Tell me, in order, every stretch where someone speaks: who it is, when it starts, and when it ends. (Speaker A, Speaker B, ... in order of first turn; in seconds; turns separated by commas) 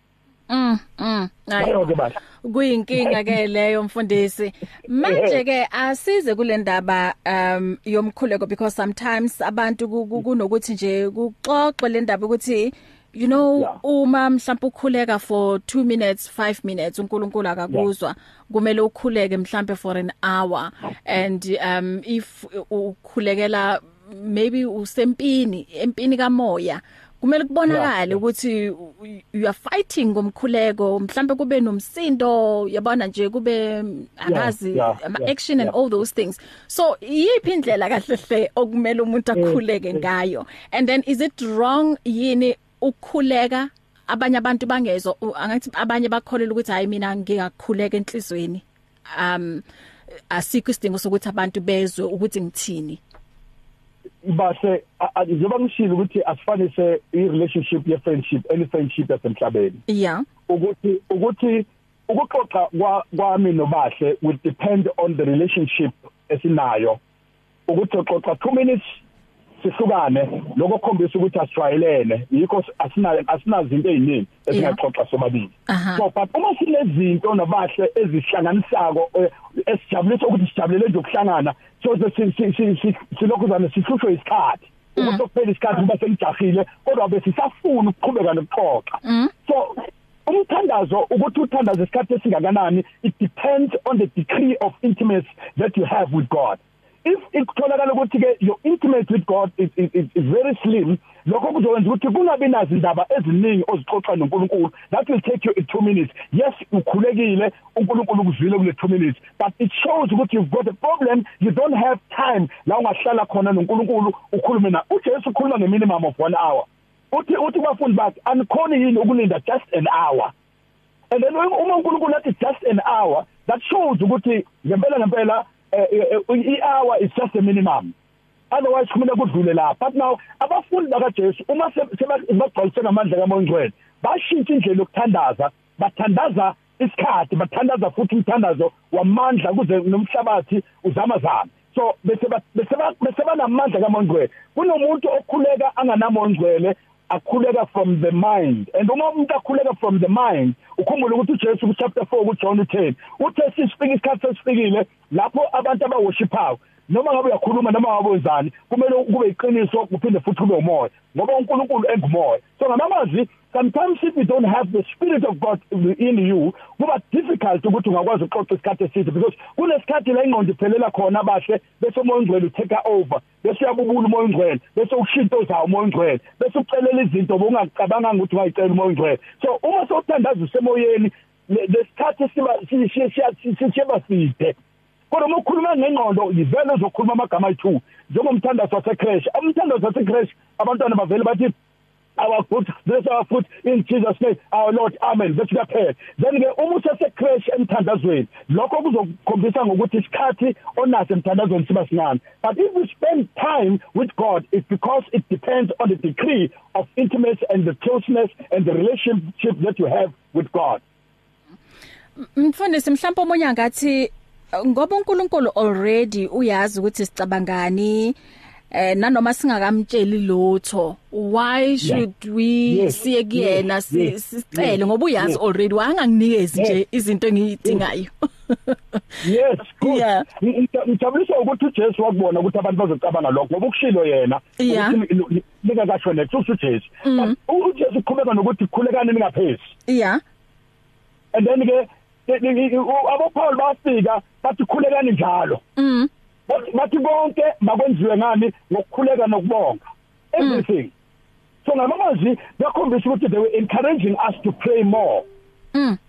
Speaker A: 0.5-1.8, Speaker B: 1.6-2.2, Speaker A: 2.4-49.6, Speaker B: 3.0-3.3, Speaker B: 5.0-5.4, Speaker B: 27.7-28.1, Speaker B: 34.3-35.7, Speaker B: 39.3-40.0, Speaker A: 50.3-53.0, Speaker B: 54.2-59.8, Speaker A: 59.9-60.2, Speaker B: 60.5-67.0, Speaker B: 67.7-69.0, Speaker B: 69.6-120.3, Speaker A: 74.5-74.8, Speaker A: 75.7-76.0, Speaker A: 89.0-89.3, Speaker B: 121.1-127.9, Speaker B: 128.5-184.6, Speaker B: 185.1-191.5, Speaker B: 192.2-210.8, Speaker A: 212.2-218.2, Speaker A: 218.7-229.0, Speaker B: 222.7-225.4, Speaker B: 226.5-226.8, Speaker B: 229.2-239.7, Speaker A: 229.8-230.2, Speaker A: 234.6-235.0, Speaker A: 237.0-237.3, Speaker A: 239.9-240.2, Speaker B: 241.3-245.6, Speaker A: 245.8-246.1, Speaker B: 246.5-249.8, Speaker B: 250.3-250.9, Speaker B: 251.6-255.2